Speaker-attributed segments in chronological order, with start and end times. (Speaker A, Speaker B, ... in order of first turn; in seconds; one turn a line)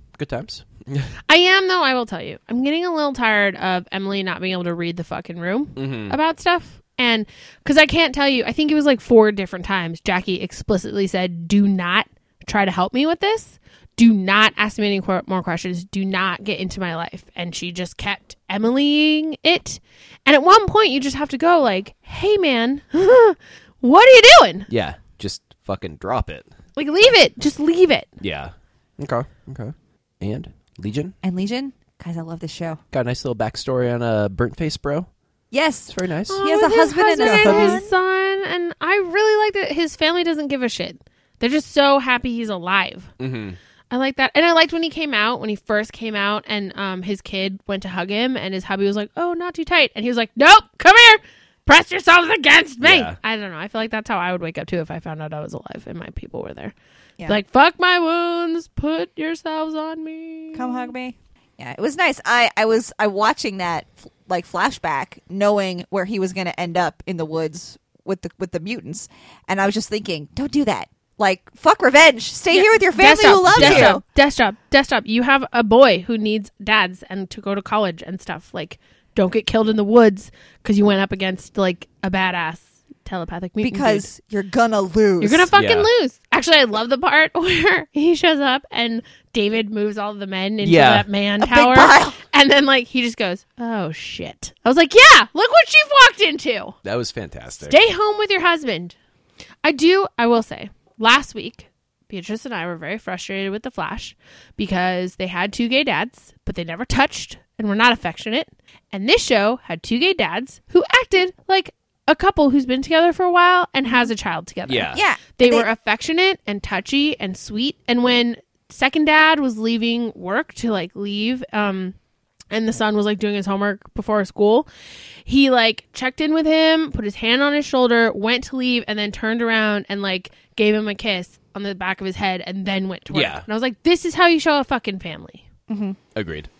Speaker A: 0.2-1.1
Speaker B: 1.3-24.7
Speaker A: 5.8-6.2
Speaker A: 24.7-26.5
Speaker B: 26.8-28.1
Speaker A: 28.2-31.1
Speaker C: 31.2-32.8
Speaker A: 32.9-35.1
Speaker C: 35.5-37.8
Speaker A: 35.9-36.4
Speaker B: 36.3-43.1
Speaker A: 37.2-37.8
Speaker A: 43.2-43.6
Speaker B: 43.9-56.7
Speaker A: 52.8-53.1
Speaker B: 57.3-60.9
Speaker C: 60.5-74.0
Speaker B: 72.5-84.1
Speaker A: 73.5-73.9
Speaker C: 83.6-85.5
Speaker B: 85.2-96.8
Speaker A: 85.5-85.9
Speaker A: 90.6-91.1
Speaker C: 91.4-92.2
Speaker A: 96.8-97.8
Speaker B: 97.6-99.0
Speaker B: 99.6-122.0
Speaker A: 114.7-115.0
Speaker C: 114.9-115.7
Speaker B: 122.5-124.7
Speaker B: 125.2-135.4
Speaker A: 133.1-133.4
Speaker C: 135.7-136.0
Speaker A: 136.1-136.5